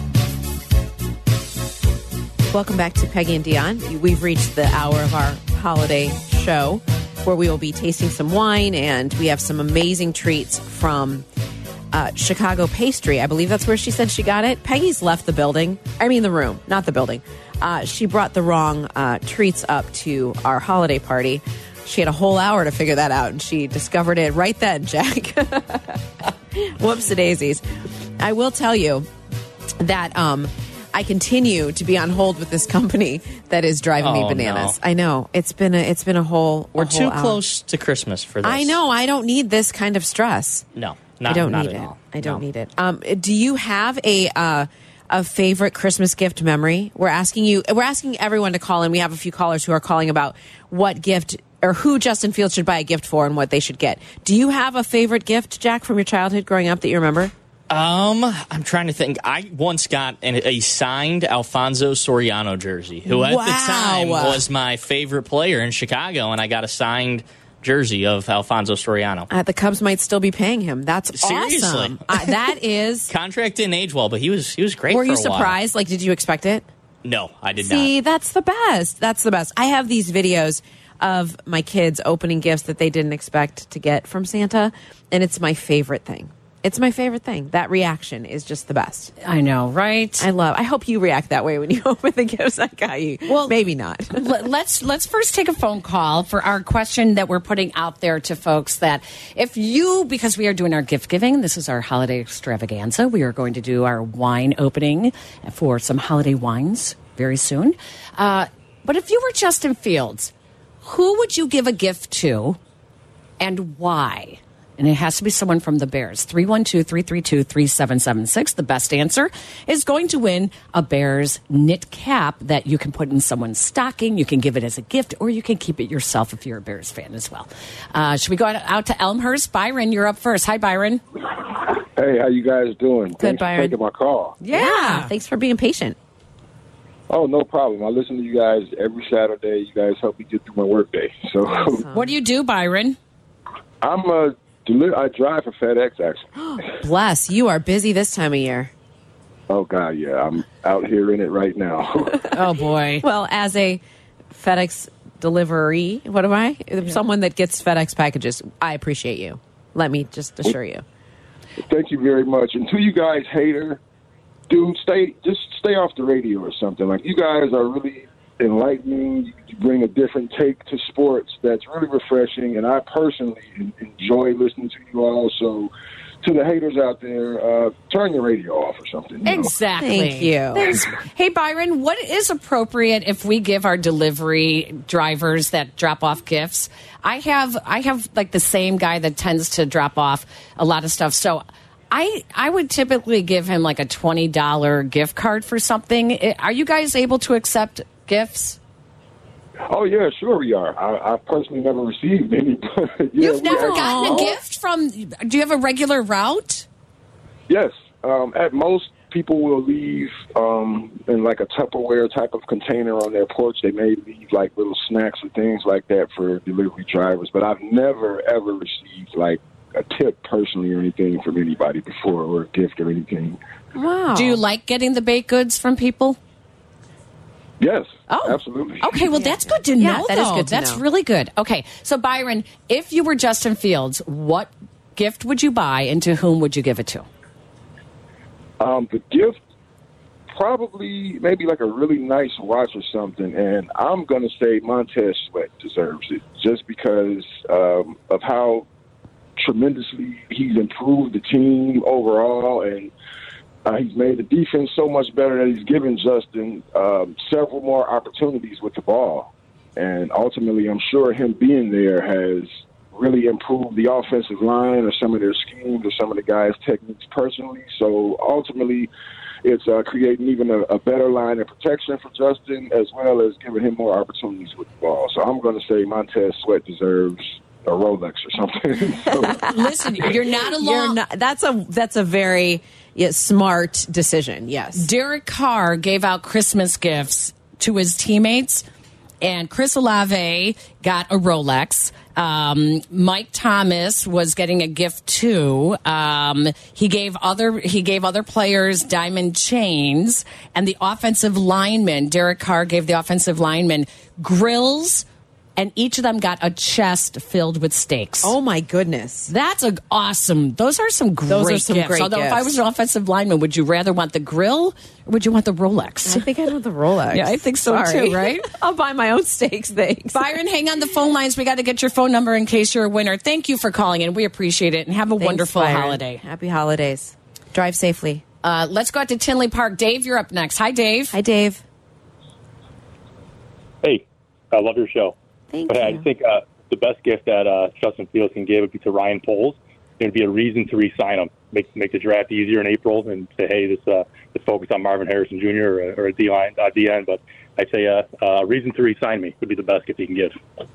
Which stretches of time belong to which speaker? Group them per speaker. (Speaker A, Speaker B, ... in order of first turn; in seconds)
Speaker A: 2.5-11.3, 11.9-27.6, 28.2-29.1, 29.8-37.4, 38.4-40.7, 41.2-57.3, 63.1-64.4, 69.3-73.1, 74.9-76.7, 77.6-89.1, 90.2-94.3, 133.2-133.8, 134.5-136.0, 141.8-142.1, 146.4-148.7, 153.0-153.8, 154.3-160.8, 179.8-180.7, 203.5-204.4, 223.8-224.4, 229.1-230.8, 280.5-284.9, 308.2-309.3, 311.3-312.6, 316.1-320.3, 325.2-328.2, 331.1-331.6, 335.5-336.1
Speaker B: 34.0-34.8, 36.8-38.8, 40.8-42.4, 57.7-69.3, 71.1-72.2, 73.1-75.5, 77.0-77.9
Speaker C: 89.2-90.3, 93.3-93.6, 94.1-110.3, 110.8-112.6, 113.4-131.0, 134.4-135.1, 141.9-143.0, 152.3-153.1, 179.2-198.6, 203.2-206.7, 224.1-226.2, 228.1-237.1, 279.2-281.0, 284.8-288.6, 289.2-305.1, 305.6-308.4, 309.3-316.3, 317.1-318.5, 320.1-326.2, 328.4-331.2
Speaker D: 132.0-134.4, 137.1-141.9, 143.8-146.3, 149.5-152.3, 161.6-163.8, 164.5-175.7, 176.2-179.5, 199.7-204.3, 207.5-223.4, 227.6-229.0, 238.6-239.4, 240.3-248.7, 249.4-252.9, 253.7-268.9, 269.4-279.5
Speaker E: 333.8-335.1, 335.7-350.4